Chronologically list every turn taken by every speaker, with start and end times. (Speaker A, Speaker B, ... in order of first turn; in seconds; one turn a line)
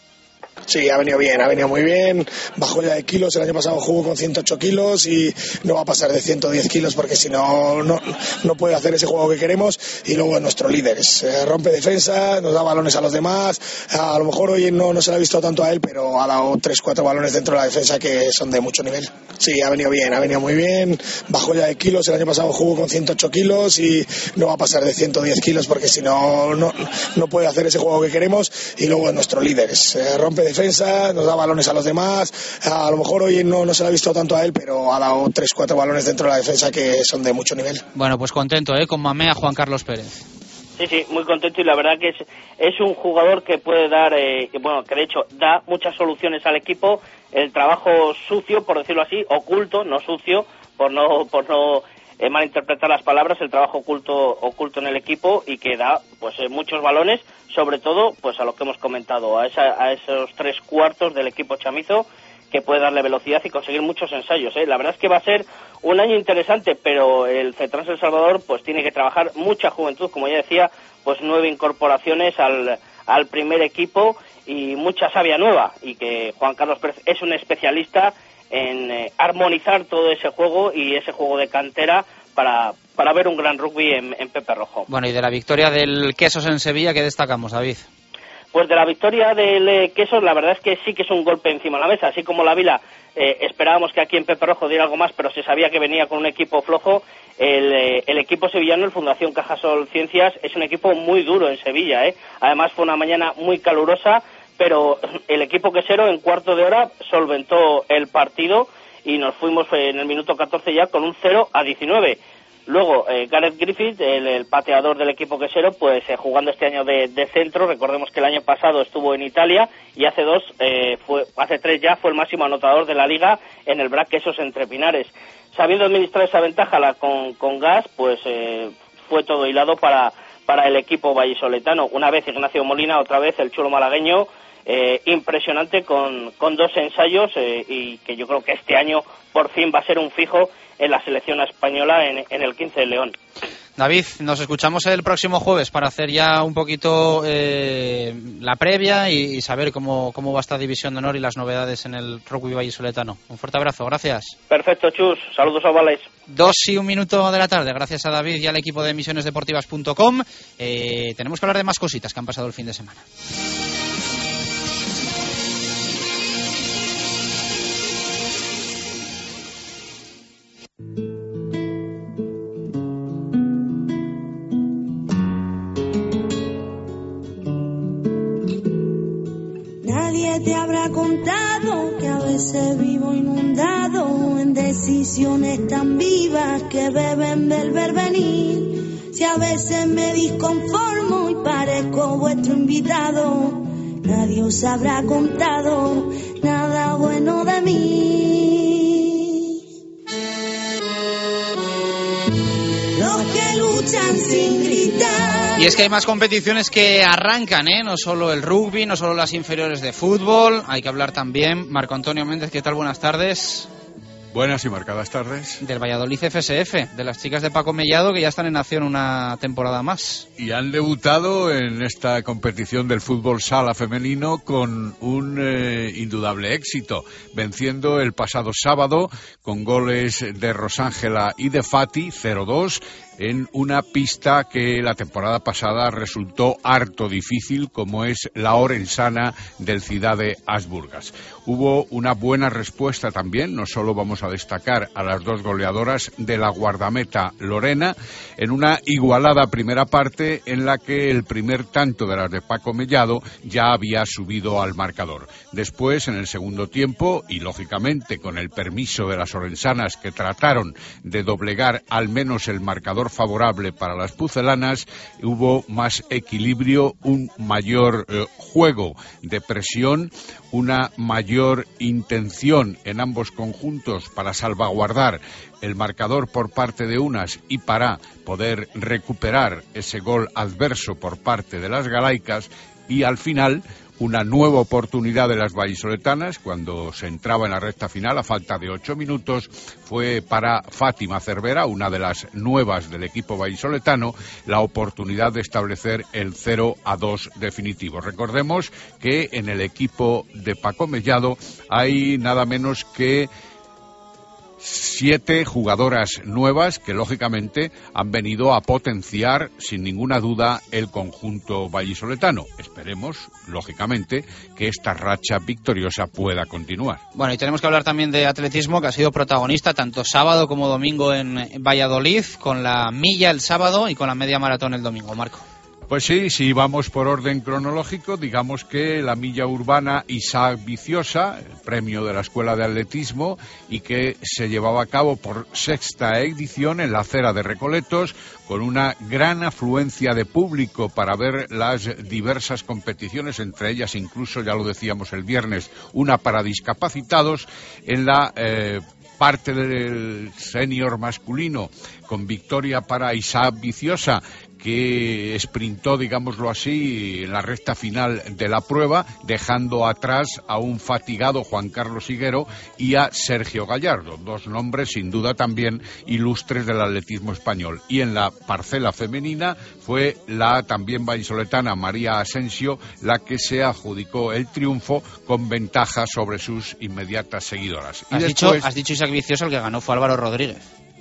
Speaker A: 0.7-37.8
Speaker B: 37.9-40.2
Speaker C: 40.8-84.9
Speaker B: 84.9-87.9
Speaker C: 88.5-143.1
Speaker B: 143.8-154.3
Speaker C: 154.5-156.1
Speaker B: 156.3-163.0
Speaker D: 179.8-199.6
Speaker D: 202.9-205.7
Speaker B: 205.6-213.7
Speaker E: 214.3-215.6
Speaker B: 215.6-220.3
Speaker E: 220.4-303.3
Speaker E: 304.6-317.0
Speaker B: 317.1-325.4
Speaker E: 325.9-378.7
Speaker B: 378.1-380.6